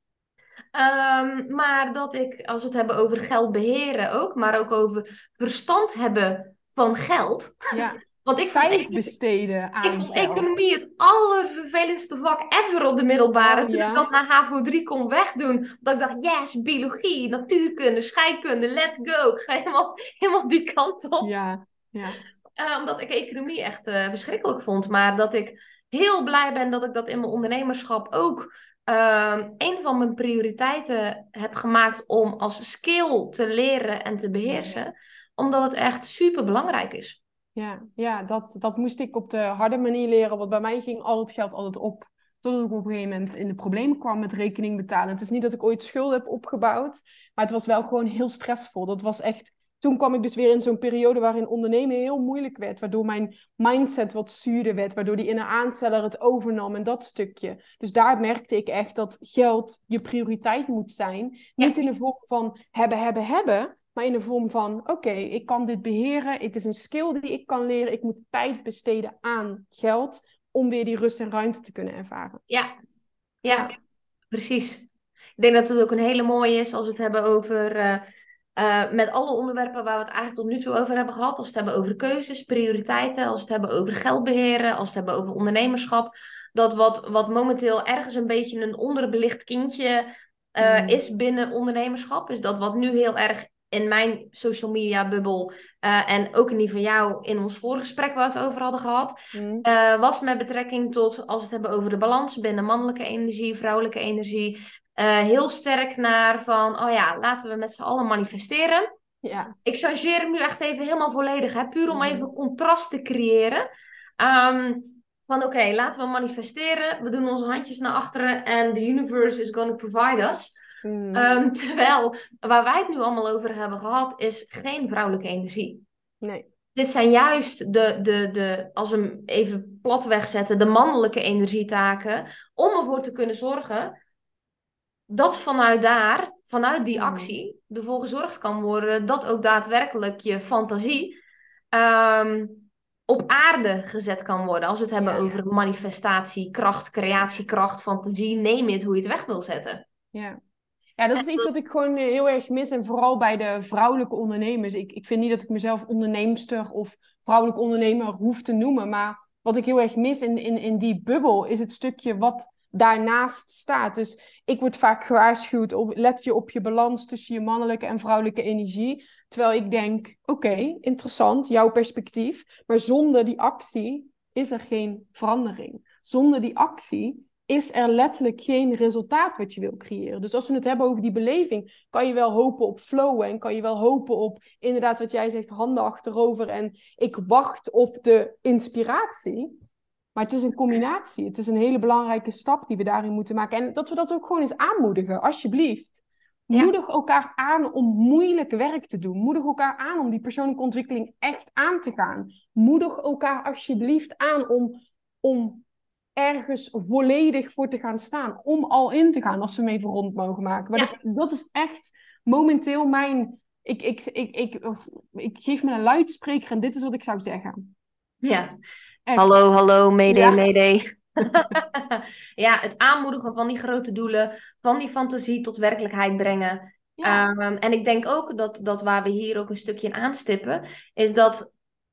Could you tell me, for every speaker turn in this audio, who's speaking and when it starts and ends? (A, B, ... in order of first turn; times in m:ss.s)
0:00.8-0:07.6 A
0:07.7-0:10.5 B
0:08.2-0:09.1 A
0:09.8-0:21.3 A
0:13.4-0:14.1 B
0:21.2-0:22.2 B
0:22.6-0:37.2 A
0:34.4-0:34.8 B
0:37.6-1:12.4 B
1:13.4-1:13.8 A
1:14.3-1:18.0 A
1:18.6-1:48.9 A
1:30.6-1:31.0 B
1:39.3-1:39.6 B
1:49.2-1:49.6 B
1:49.6-1:53.7 A
1:51.9-1:52.3 B
1:54.2-2:00.6 A
2:00.8-2:01.3 B
2:01.1-2:05.8 A
2:06.8-2:13.9 A
2:15.1-2:21.2 A
2:17.0-2:17.4 B
2:21.7-2:29.8 A
2:25.0-2:25.4 B
2:30.1-2:30.4 B
2:31.0-3:09.6 B
2:31.2-2:31.5 A
3:10.2-3:16.0 B
3:16.5-3:25.6 B
3:26.2-3:37.7 B
3:38.2-3:38.5 A
3:39.1-3:39.4 B
3:39.2-3:51.5 A
3:40.1-3:40.4 B
3:47.0-3:47.3 B